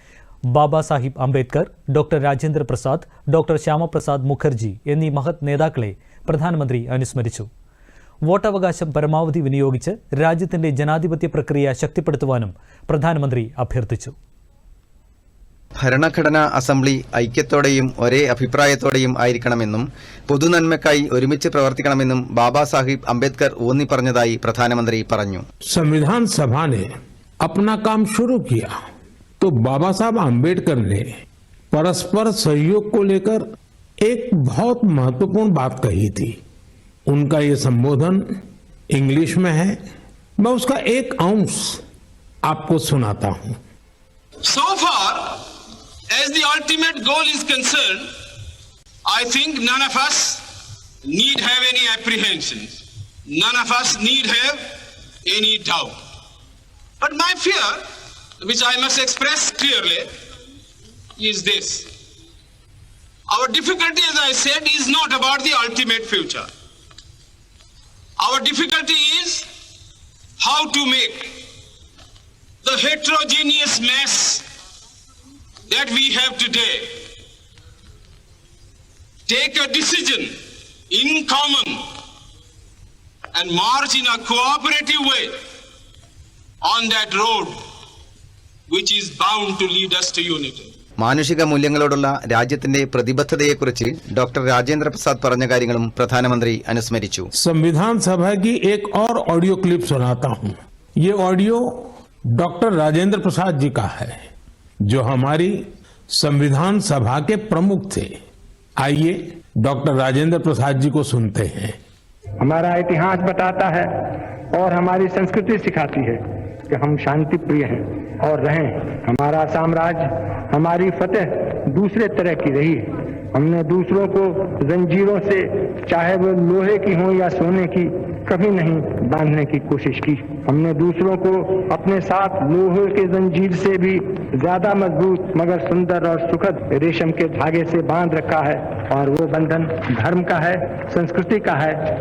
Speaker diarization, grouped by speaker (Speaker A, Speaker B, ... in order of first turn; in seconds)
Speaker A: 0.5-7.5, 8.3-14.2
Speaker B: 15.8-25.4, 91.0-97.3
Speaker C: 25.7-26.9, 27.4-28.8, 29.4-31.1, 31.7-33.4, 34.0-36.4, 37.1-38.2, 38.9-39.8, 40.4-41.8, 42.5-43.6, 97.4-104.2, 104.9-108.1, 108.8-111.8
Speaker D: 44.5-45.4, 46.1-48.1, 49.1-50.4, 51.1-54.7, 55.2-56.0, 57.0-57.8, 58.4-60.1, 61.2-61.9, 63.3-66.5, 68.2-69.5, 70.4-71.4, 72.6-74.4, 75.7-77.0, 79.3-80.4, 80.9-81.8, 83.3-85.3, 86.6-87.6, 88.7-90.7
Speaker E: 112.4-113.9, 114.5-116.2, 116.7-117.8, 118.3-120.0, 120.6-122.8, 123.4-141.8